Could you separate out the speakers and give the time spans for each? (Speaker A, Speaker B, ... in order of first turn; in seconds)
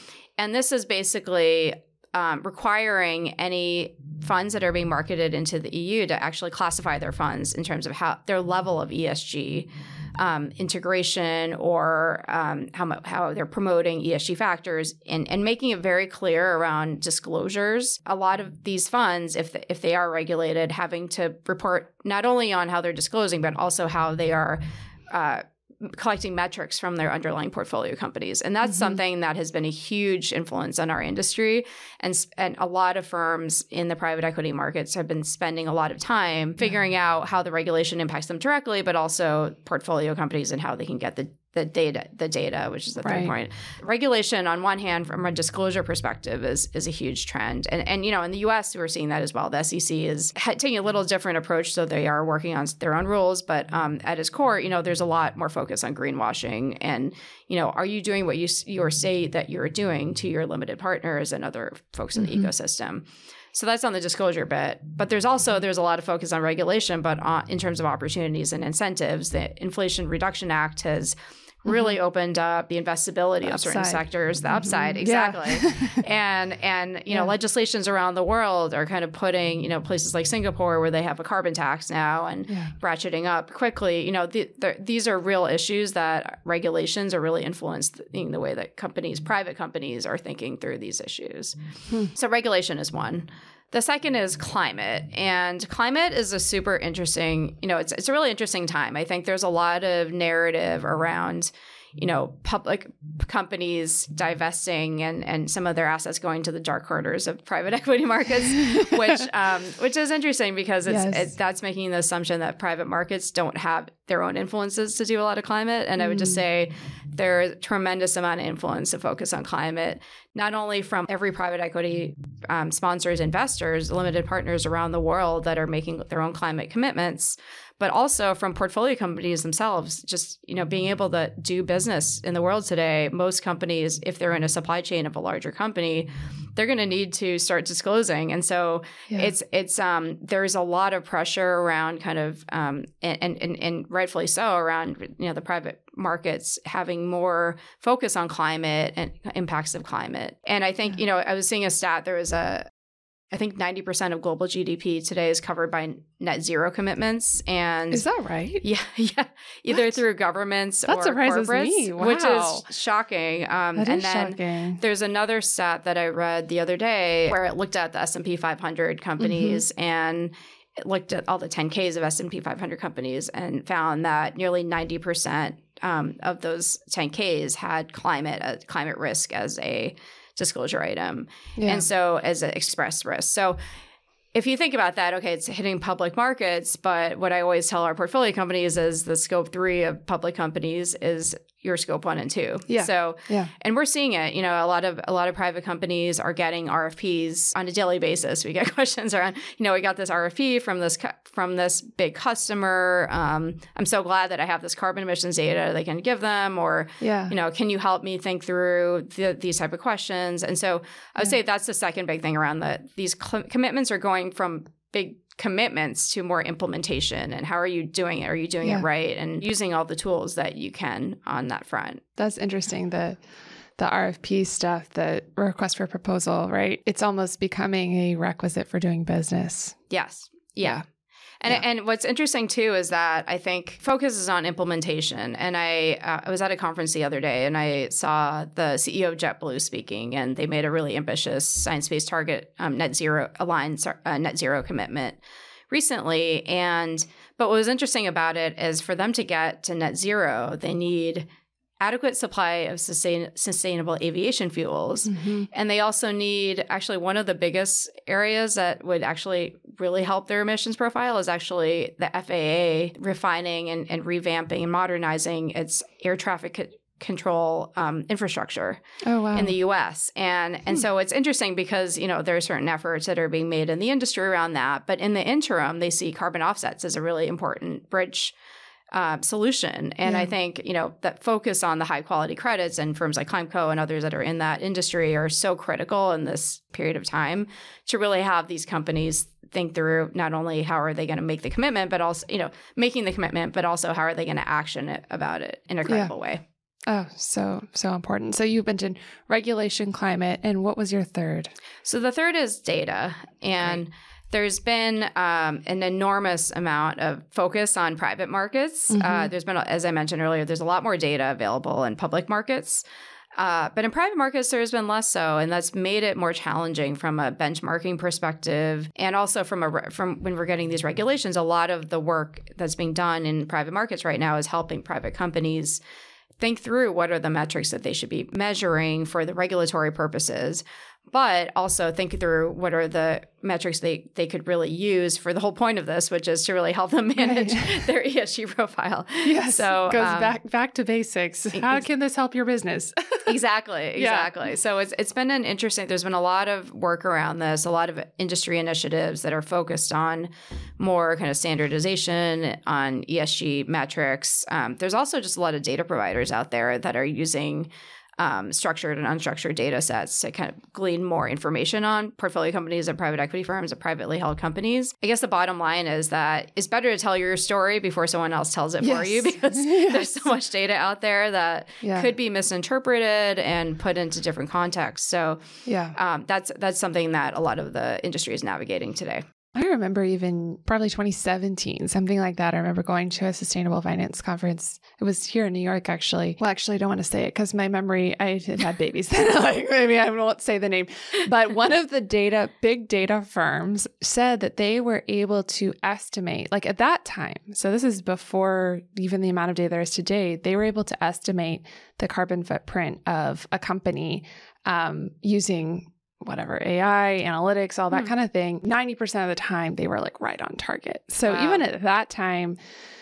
Speaker A: 0.4-91.6, 92.1-152.7, 153.3-158.0, 158.6-183.6, 184.3-222.0, 229.9-230.8, 231.4-251.3, 251.8-268.8, 269.3-278.3, 278.9-296.4, 301.8-312.9, 313.4-325.8, 326.4-340.4, 341.5-341.8, 343.3-375.4, 375.9-379.2, 411.3-411.6
Speaker B: 43.0-43.3, 62.2-62.5, 73.5-76.0, 82.5-82.8, 110.9-111.3, 116.0-116.4, 157.9-158.6, 160.9-162.7, 163.8-164.8, 169.2-169.6, 181.6-181.9, 192.7-193.5, 207.0-207.3, 222.2-223.2, 223.8-229.8, 255.1-255.5, 269.0-269.6, 280.1-280.3, 295.9-296.1, 296.9-301.5, 308.9-309.3, 337.2-337.8, 339.2-343.3, 344.0-344.4, 368.8-370.2, 371.8-372.1, 375.7-376.0, 379.6-412.6